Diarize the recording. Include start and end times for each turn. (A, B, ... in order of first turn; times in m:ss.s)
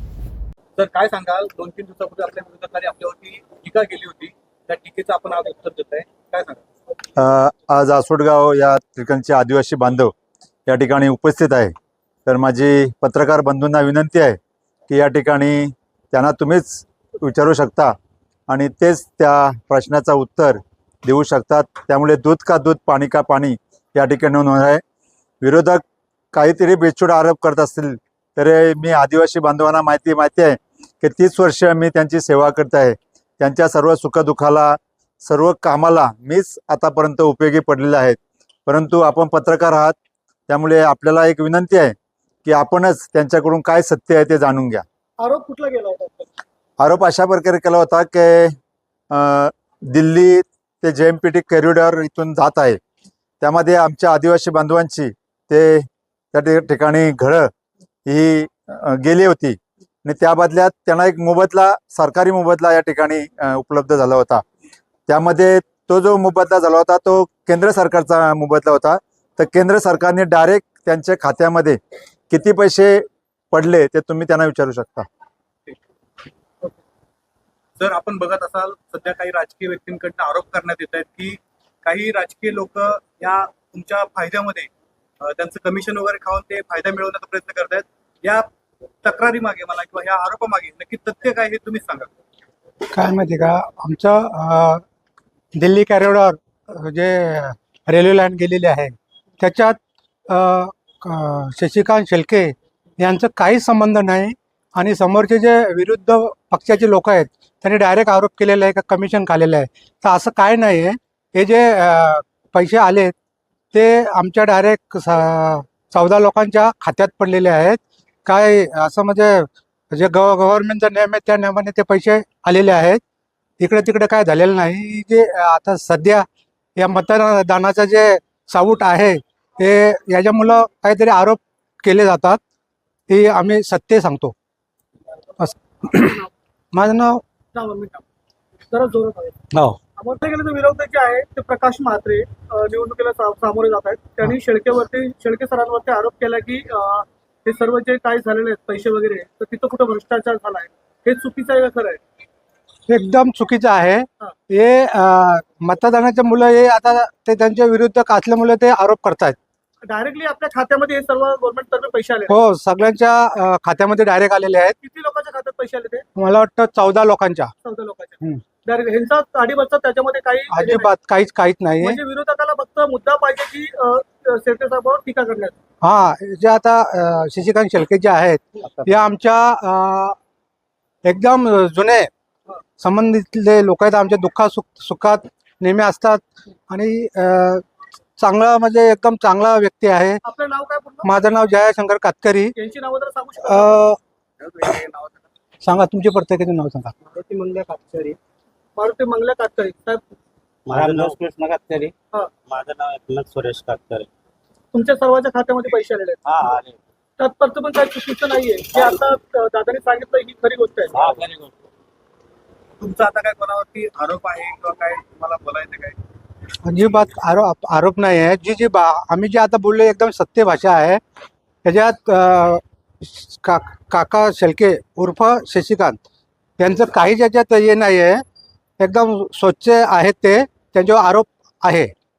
0:00.8-0:06.6 A
0:07.2-0:10.1 B
0:10.7-0:11.7 B
0:12.3-0:17.9 B
0:18.5-0:24.8 B
0:25.4-0:40.0 B
0:40.5-0:44.8 B
0:45.2-0:46.4 C
0:46.8-0:48.6 B
0:49.1-0:52.8 B
0:53.4-0:57.5 B
0:58.1-1:04.4 B
1:05.1-1:11.8 B
1:12.3-1:15.1 B
1:17.8-1:24.7 A
1:25.2-1:28.5 A
1:29.0-1:32.1 A
1:32.9-1:34.8 D
1:35.5-1:39.8 D
1:40.3-1:53.1 D
1:53.7-2:03.0 D
2:03.6-2:06.2 D
2:06.8-2:12.4 D
2:13.1-2:14.4 D
2:15.4-2:16.2 D
2:16.7-2:17.2 D
2:17.5-2:18.0 C
2:18.7-2:19.4 C
2:20.0-2:32.0 C
2:32.9-2:39.4 D
2:39.8-2:42.3 C
2:42.3-2:44.8 D
2:44.8-2:46.0 C
2:46.2-2:47.5 D
2:47.6-2:50.9 C
2:50.5-2:52.0 D
2:51.8-2:55.6 C
2:55.8-3:00.2 D
3:01.0-3:02.1 D
3:02.8-3:07.6 D
3:08.2-3:10.2 D
3:10.2-3:11.1 C
3:11.0-3:12.5 D
3:12.6-3:13.8 C
3:13.4-3:14.0 D
3:14.4-3:15.2 A
3:15.6-3:16.9 D
3:17.1-3:18.2 C
3:18.8-3:20.0 C
3:20.7-3:21.9 E
3:22.5-3:24.1 E
3:24.7-3:26.3 C
3:26.3-3:26.8 E
3:27.2-3:31.0 C
3:30.9-3:31.5 E
3:32.8-3:36.0 A
3:36.6-3:41.0 D
3:41.6-3:46.0 D
3:46.6-3:48.2 D
3:48.8-3:51.9 D